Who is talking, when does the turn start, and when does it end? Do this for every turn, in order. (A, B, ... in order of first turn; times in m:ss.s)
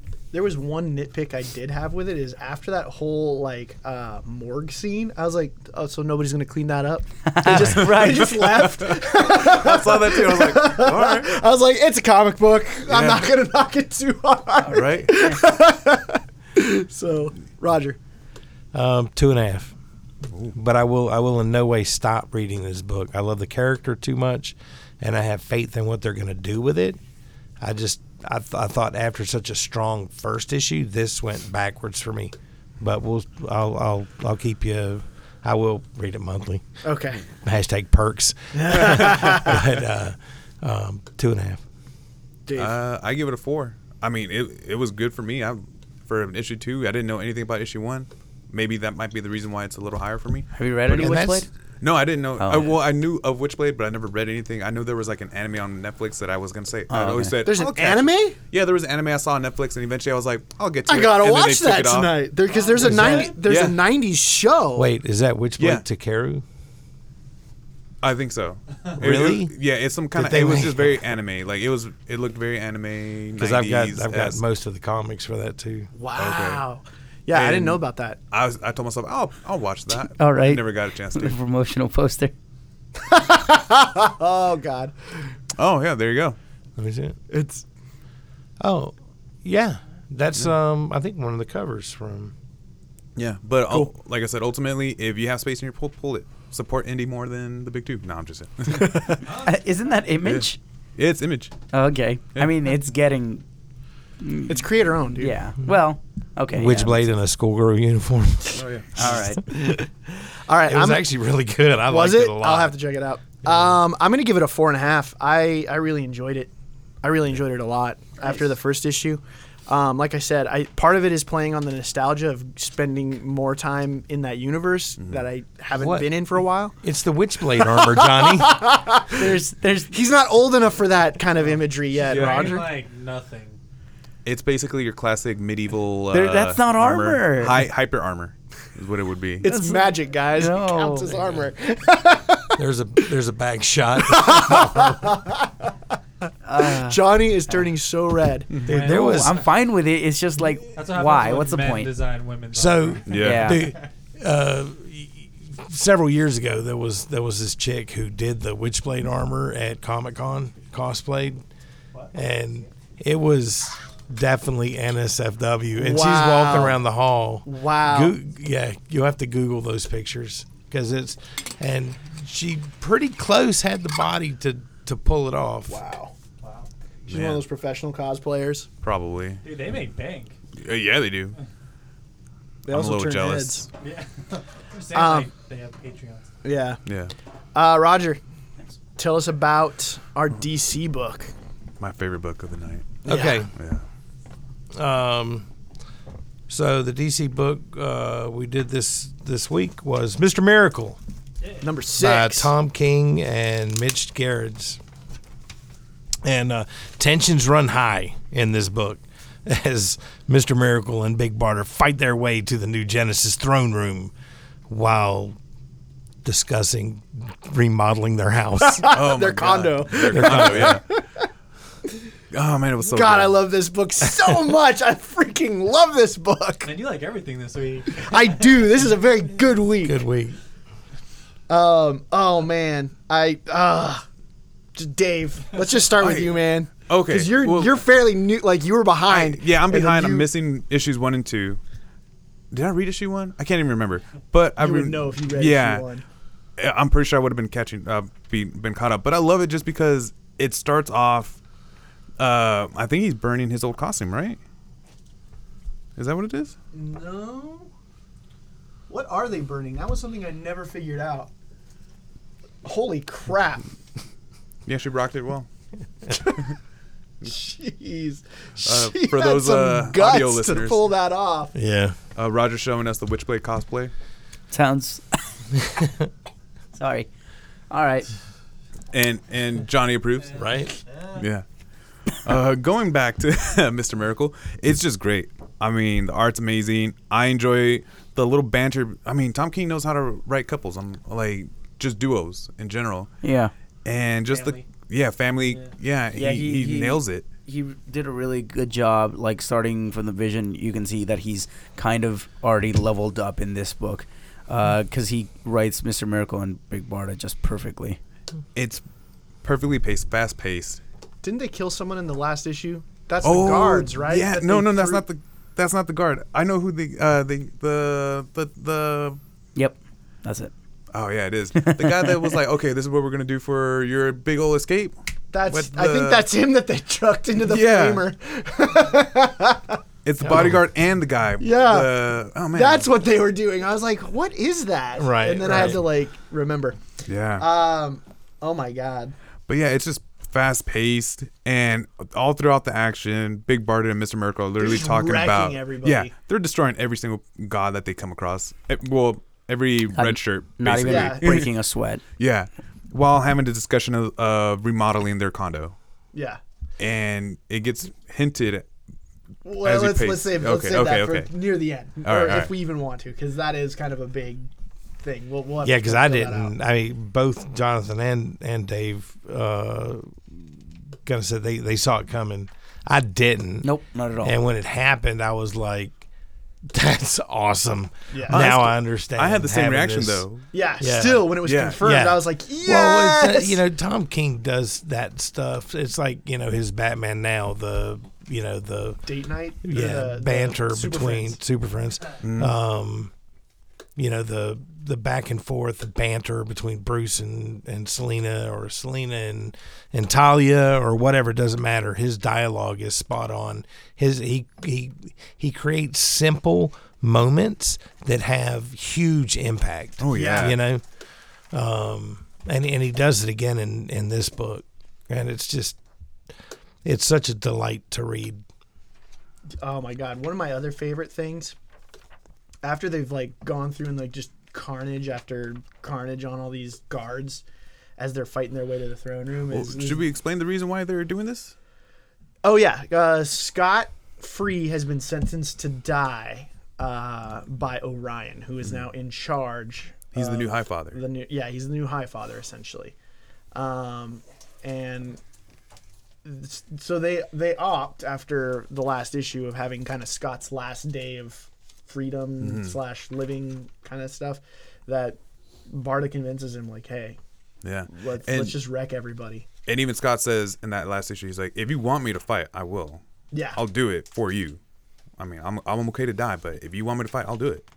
0:00.3-0:18.0 A
0:07.3-0:08.4 B
0:07.8-0:11.4 C
0:12.9-0:13.3 C
0:14.6-0:15.4 B
0:14.7-0:15.1 C
0:18.7-0:19.8 D
0:20.3-0:20.6 C
0:20.5-0:27.0 D
0:27.6-0:36.6 D
0:36.8-0:37.2 A
0:37.3-0:41.6 D
0:38.6-0:39.6 A
0:42.5-0:42.8 A
0:42.6-0:50.5 C
0:50.5-0:51.5 B
0:50.9-0:51.5 D
0:51.8-1:02.2 C
0:52.4-0:52.8 B
0:56.9-0:57.4 B
0:57.5-0:58.4 A
1:00.9-1:04.9 A
1:02.5-1:03.4 E
1:02.9-1:03.3 D
1:02.9-1:03.8 C
1:04.8-1:06.4 D
1:05.6-1:05.8 C
1:08.0-1:14.4 C
1:09.0-1:09.5 D
1:10.1-1:11.0 D
1:13.4-1:15.9 D
1:15.9-1:18.2 A
1:16.2-1:16.6 C
1:17.3-1:21.4 C
1:20.2-1:22.3 B
1:23.0-1:25.2 A
1:25.6-1:26.4 C
1:26.8-1:27.2 D
1:27.3-1:27.6 A
1:28.6-1:32.3 D
1:33.2-1:39.2 C
1:38.7-1:39.2 A
1:39.2-1:39.6 E
1:39.4-1:40.6 B
1:40.2-1:41.5 C
1:41.7-1:43.4 B
1:44.2-1:47.1 B
1:44.5-1:45.4 A
1:46.5-1:49.9 D
1:48.5-1:48.9 C
1:49.0-1:49.4 B
1:50.4-1:51.0 A
1:50.6-1:52.8 D
1:51.9-1:56.5 A
1:57.0-2:06.8 A
2:05.0-2:05.2 C
2:05.7-2:06.2 D
2:06.8-2:08.6 D
2:07.5-2:09.4 A
2:09.1-2:09.9 B
2:09.9-2:12.8 A
2:11.4-2:13.6 E
2:12.1-2:12.6 C
2:14.2-2:19.5 C
2:16.1-2:17.7 B
2:19.4-2:22.6 A
2:19.4-2:21.3 B
2:22.6-2:25.2 D
2:24.0-2:25.7 A
2:26.4-2:27.7 B
2:26.6-2:29.2 A
2:28.6-2:29.5 E
2:28.7-2:29.4 D
2:28.9-2:31.9 B
2:30.7-2:33.8 E
2:32.5-2:41.4 D
2:33.1-2:33.5 C
2:33.1-2:33.7 B
2:42.1-2:55.8 D
2:45.8-2:46.8 A
2:47.4-2:48.2 A
2:55.7-2:56.2 A
2:56.4-2:56.7 E
2:57.1-2:58.7 A
2:57.1-2:57.4 C
2:58.8-2:59.4 C
2:59.4-3:00.4 E
3:00.6-3:01.4 C
3:02.7-3:03.6 A
3:02.7-3:03.7 C
3:03.8-3:06.3 E
3:04.9-3:05.3 A
3:06.4-3:06.8 A
3:06.9-3:07.1 C
3:07.6-3:08.2 A
3:09.0-3:11.3 A
3:11.8-3:13.8 C
3:13.0-3:13.5 A
3:13.1-3:13.5 D
3:14.7-3:15.5 D
3:16.5-3:21.0 D
3:21.6-3:22.5 A
3:22.0-3:24.8 D
3:26.2-3:34.1 D
3:34.7-3:35.4 D
3:36.2-3:39.0 D
3:38.6-3:41.3 A
3:38.9-3:40.8 C
3:40.1-3:40.8 D
3:42.3-3:43.4 C
3:42.8-3:46.8 A
3:46.6-3:48.7 E
3:47.9-3:50.0 A
3:49.8-3:50.4 D
3:51.5-3:54.0 A
3:54.8-4:00.3 A
3:56.0-3:57.8 C
3:59.1-4:01.6 C
4:02.5-4:05.9 C
4:04.6-4:06.0 A
4:06.6-4:11.4 C
4:12.2-4:14.4 C
4:16.0-4:16.6 C
4:16.7-4:17.7 A
4:18.9-4:21.3 A
4:22.6-4:23.7 A
4:24.7-4:25.5 C
4:26.1-4:26.4 A
4:27.2-4:31.6 A
4:28.6-4:30.9 C
4:31.6-4:32.0 D
4:32.2-4:33.9 C
4:34.5-4:35.2 B
4:35.7-4:36.1 D
4:36.8-4:37.1 B
4:37.7-4:38.1 B
4:38.9-4:40.4 C
4:40.4-4:40.8 D
4:41.1-4:41.4 C
4:42.1-4:53.1 C
4:53.2-4:53.5 B
4:53.8-4:57.3 C
4:54.3-4:54.7 E
4:56.2-5:08.0 B
5:08.6-5:08.8 C
5:09.4-5:10.8 C
5:11.2-5:15.0 A
5:13.2-5:19.2 C
5:19.6-5:20.5 B
5:20.9-5:26.3 C
5:21.6-5:22.4 B
5:25.3-5:30.6 A
5:27.4-5:28.1 C
5:30.0-5:32.9 C
5:31.4-5:36.8 A
5:35.0-5:35.8 D
5:35.5-5:35.8 C
5:37.1-5:37.5 C
5:37.4-5:39.2 A
5:39.5-5:51.5 C
5:44.6-5:46.1 A
5:49.9-5:52.0 B
5:50.8-5:51.5 A
5:52.2-5:55.8 C
5:56.1-5:56.4 A
5:56.8-5:58.7 C
5:59.4-6:04.5 A
5:59.6-6:01.3 C
6:02.0-6:02.5 C
6:05.0-6:06.5 A
6:05.6-6:13.7 D
6:13.6-6:14.4 B
6:14.2-6:16.0 D
6:16.7-6:20.3 D
6:18.1-6:18.6 A
6:18.3-6:20.5 C
6:20.5-6:23.6 A
6:20.8-6:29.0 D
6:21.4-6:21.8 C
6:29.1-6:31.4 A
6:29.6-6:33.1 D
6:32.2-6:32.5 C
6:34.0-6:50.8 D
6:50.0-6:50.6 C
6:50.1-6:50.6 A
6:51.5-6:55.8 D
6:56.8-6:58.4 D
6:59.6-7:01.6 A
7:02.6-7:07.4 A
7:08.0-7:10.0 A
7:09.5-7:11.5 C
7:12.4-7:23.0 A
7:20.1-7:21.0 C
7:23.5-7:25.2 A
7:26.2-7:37.2 A
7:32.4-7:32.8 C
7:37.6-7:38.6 C
7:37.9-7:39.5 A
7:39.7-7:43.0 C
7:43.3-7:43.6 A
7:43.5-7:44.6 C
7:45.2-7:47.6 C